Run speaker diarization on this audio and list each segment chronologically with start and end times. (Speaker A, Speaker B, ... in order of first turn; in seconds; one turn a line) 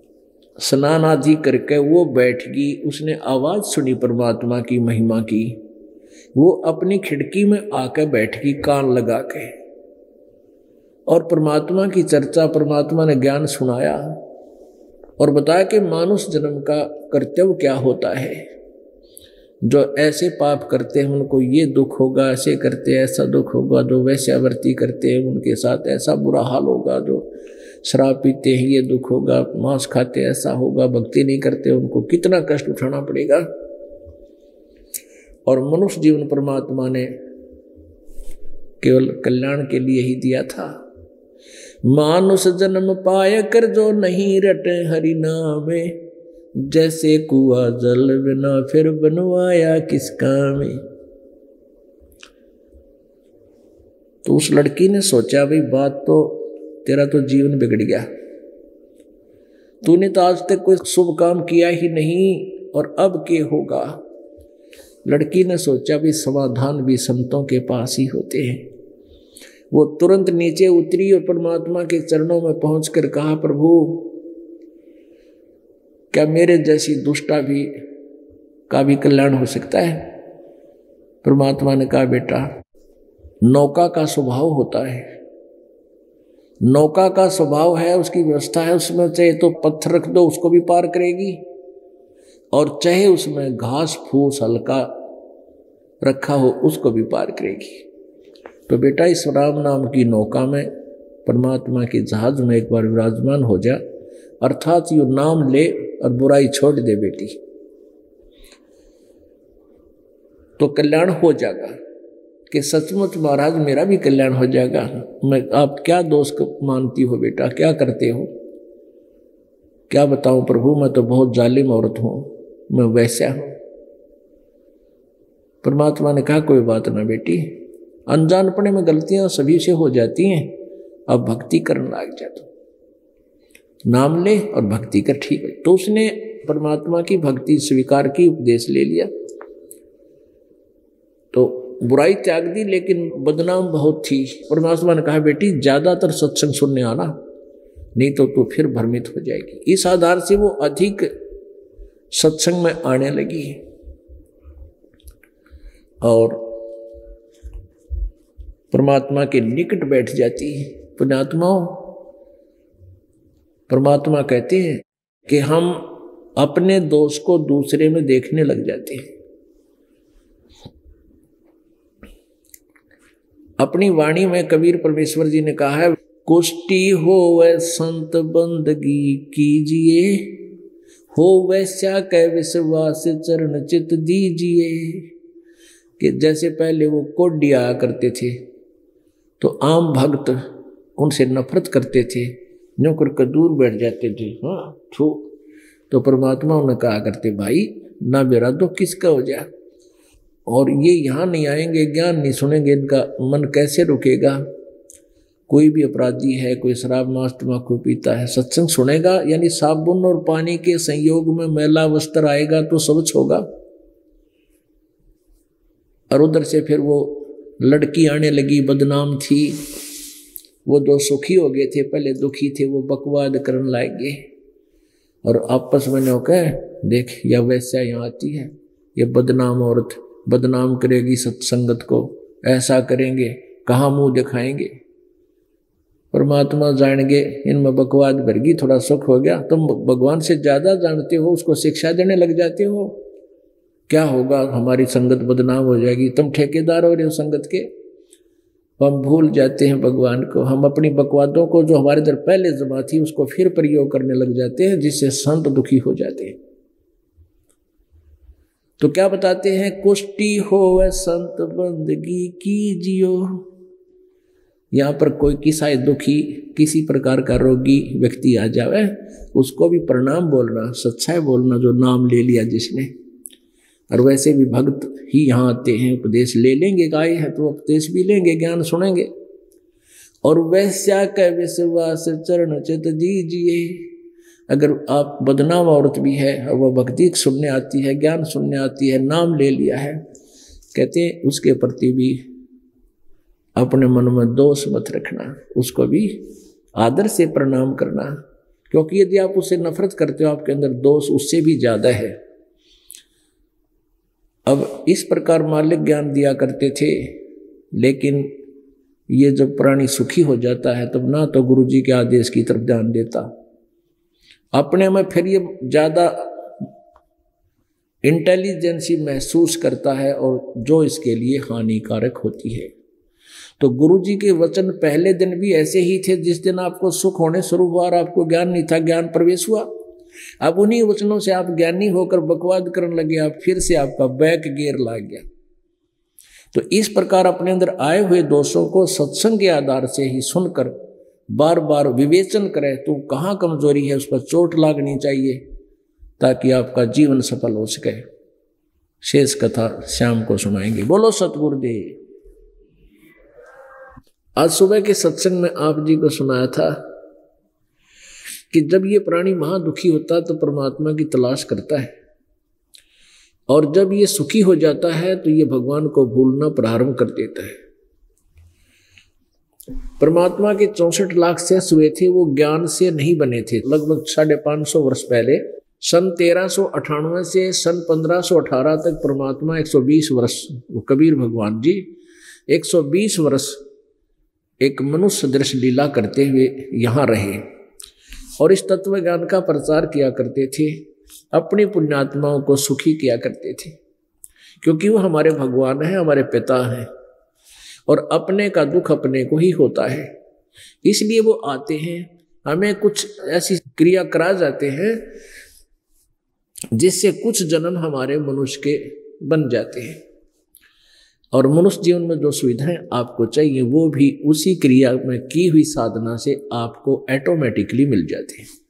Speaker A: 0.6-5.6
Speaker A: 6.3-9.5
Speaker A: 11.1-14.1
Speaker A: 15.2-18.4
Speaker A: 19.6-27.3
Speaker A: 27.8-33.5
Speaker A: 35.5-37.1
Speaker A: 38.8-40.7
Speaker A: 41.9-46.0
Speaker A: 46.6-50.8
Speaker A: 54.2-58.1
Speaker A: 59.8-64.0
Speaker A: 65.1-68.7
Speaker A: 69.7-74.2
Speaker A: 76.1-77.7
Speaker A: 78.7-80.1
Speaker A: 81.2-82.5
Speaker A: 83.4-85.1
Speaker A: 86.6-91.4
Speaker A: 92.5-95.0
Speaker A: 96.0-97.8
Speaker A: 98.7-100.7
Speaker A: 101.2-103.8
Speaker A: 104.4-107.4
Speaker A: 110.6-111.8
Speaker A: 112.5-118.3
Speaker A: 119.9-123.5
Speaker A: 125.6-130.6
Speaker A: 131.1-132.5
Speaker A: 133.9-139.1
Speaker A: 141.3-147.1
Speaker A: 147.9-151.1
Speaker A: 152.1-153.6
Speaker A: 156.0-156.7
Speaker A: 158.7-162.0
Speaker A: 163.7-169.1
Speaker A: 173.6-180.5
Speaker A: 181.1-185.1
Speaker A: 186.0-188.4
Speaker A: 189.4-195.3
Speaker A: 195.9-199.5
Speaker A: 200.5-204.4
Speaker A: 205.5-213.4
Speaker A: 216.1-219.6
Speaker A: 220.7-224.2
Speaker A: 225.2-234.7
Speaker A: 236.1-243.0
Speaker A: 243.9-247.7
Speaker A: 248.8-256.4
Speaker A: 258.8-263.4
Speaker A: 264.7-272.9
Speaker A: 273.9-279.1
Speaker A: 280.2-283.9
Speaker A: 284.5-290.0
Speaker A: 290.7-292.2
Speaker A: 293.6-296.2
Speaker A: 296.8-298.2
Speaker A: 298.7-302.1
Speaker A: 304.5-307.2
Speaker A: 307.8-308.3
Speaker A: 309.1-313.3
Speaker A: 314.5-316.6
Speaker A: 318.0-322.7
Speaker A: 323.6-329.7
Speaker A: 330.4-335.2
Speaker A: 336.5-340.8
Speaker A: 341.3-345.4
Speaker A: 346.2-348.0
Speaker A: 349.0-352.0
Speaker A: 354.4-356.9
Speaker A: 358.5-361.9
Speaker A: 363.5-367.6
Speaker A: 370.0-381.9
Speaker A: 382.5-383.6
Speaker A: 384.6-387.4
Speaker A: 388.4-390.8
Speaker A: 391.3-393.8
Speaker A: 394.6-396.9
Speaker A: 397.9-400.1
Speaker A: 400.8-405.1
Speaker A: 406.8-410.0
Speaker A: 411.3-418.4